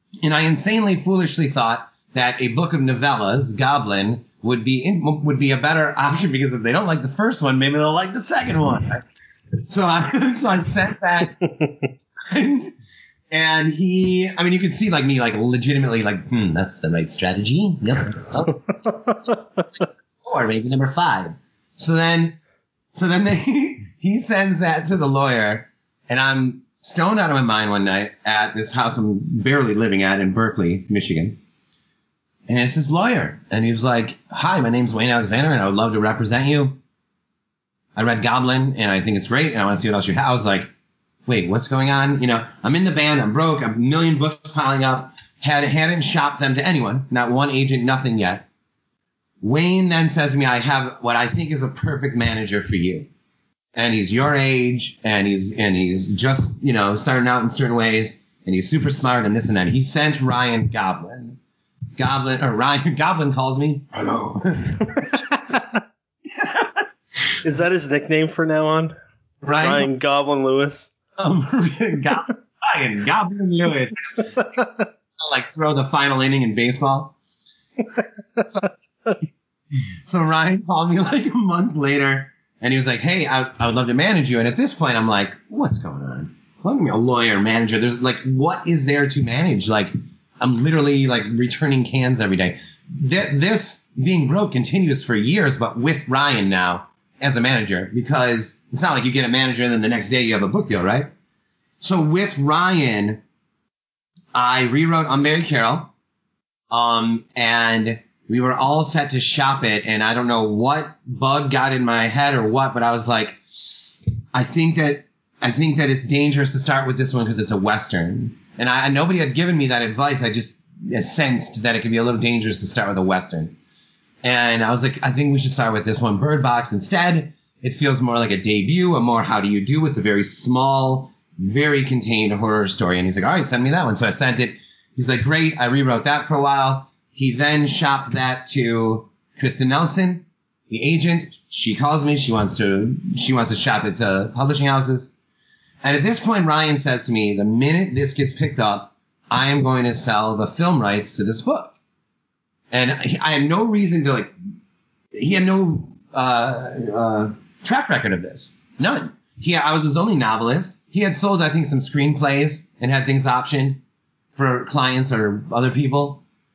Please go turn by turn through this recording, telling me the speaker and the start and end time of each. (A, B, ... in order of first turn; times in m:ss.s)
0:00.2-0:09.0 A
0:09.7-0:11.4 A
0:12.2-0:12.7 A
0:13.3-0:18.6 A
0:18.9-0:19.1 B
0:20.0-0:22.4 A
0:22.9-0:31.4 A
0:32.5-0:36.8 A
0:38.0-0:40.7 A
0:41.2-0:48.4 A
0:49.4-0:53.1 A
0:53.7-1:01.4 A
1:02.0-1:05.2 A
1:06.4-1:06.8 A
1:07.4-1:08.9 B
1:09.4-1:09.9 A
1:09.6-1:10.9 B
1:11.2-1:14.6 A
1:15.2-1:17.1 A
1:18.4-1:41.1 A
1:41.8-1:43.2 A
1:44.3-1:45.9 A
1:46.7-2:03.6 A
2:04.2-2:25.1 A
2:25.8-2:31.7 A
2:32.7-2:34.3 A
2:35.1-2:43.8 A
2:44.3-2:46.2 A